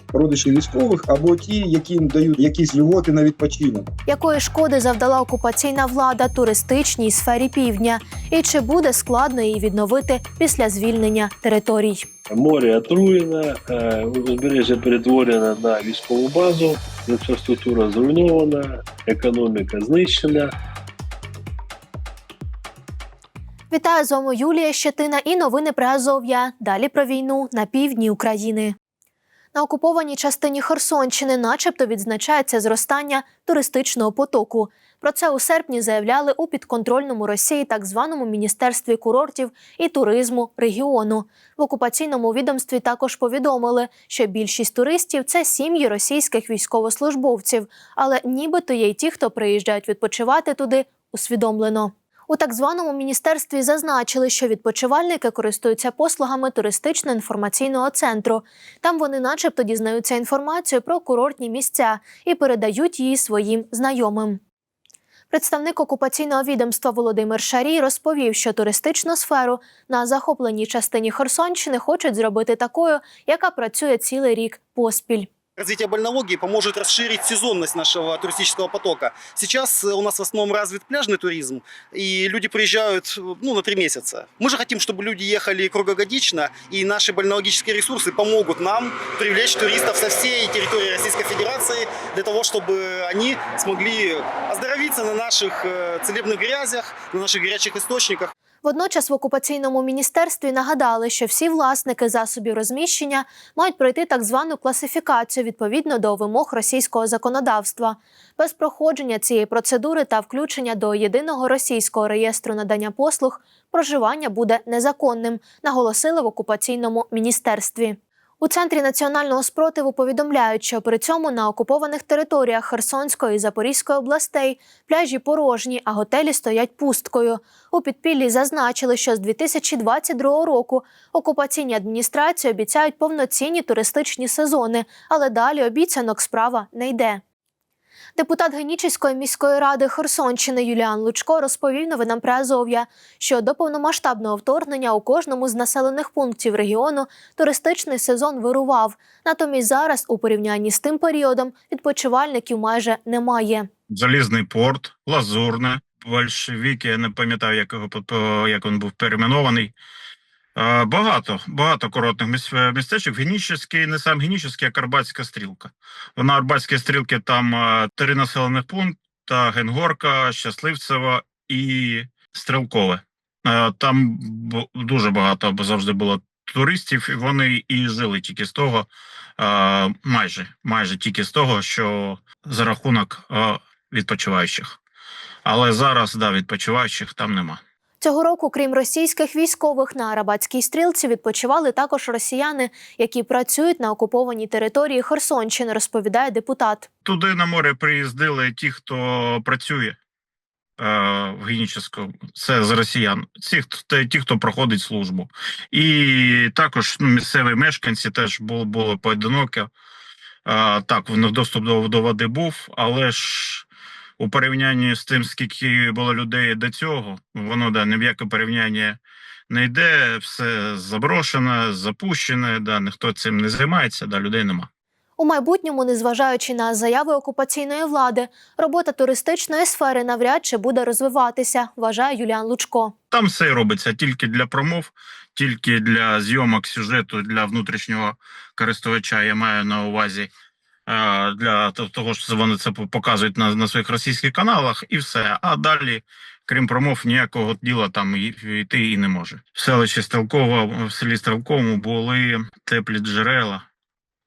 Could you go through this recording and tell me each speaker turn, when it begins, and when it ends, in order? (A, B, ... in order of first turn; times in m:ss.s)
0:00.1-0:03.9 A
0:04.1-0:12.0 B
0:12.3-0:20.5 C
0:23.7-0:28.8 B
0:29.5-1:04.4 B
1:05.3-1:15.3 B
1:15.6-1:38.3 D
1:38.6-2:17.2 B
2:18.2-2:33.7 B
2:33.9-2:39.8 E
2:40.6-3:04.8 E
3:05.4-3:07.6 E
3:08.0-3:16.9 B
3:17.0-3:20.0 E
3:20.8-3:29.7 E
3:30.4-3:33.7 E
3:34.2-3:44.7 E
3:45.2-3:52.9 B
3:53.1-4:00.3 E
4:00.9-4:13.6 E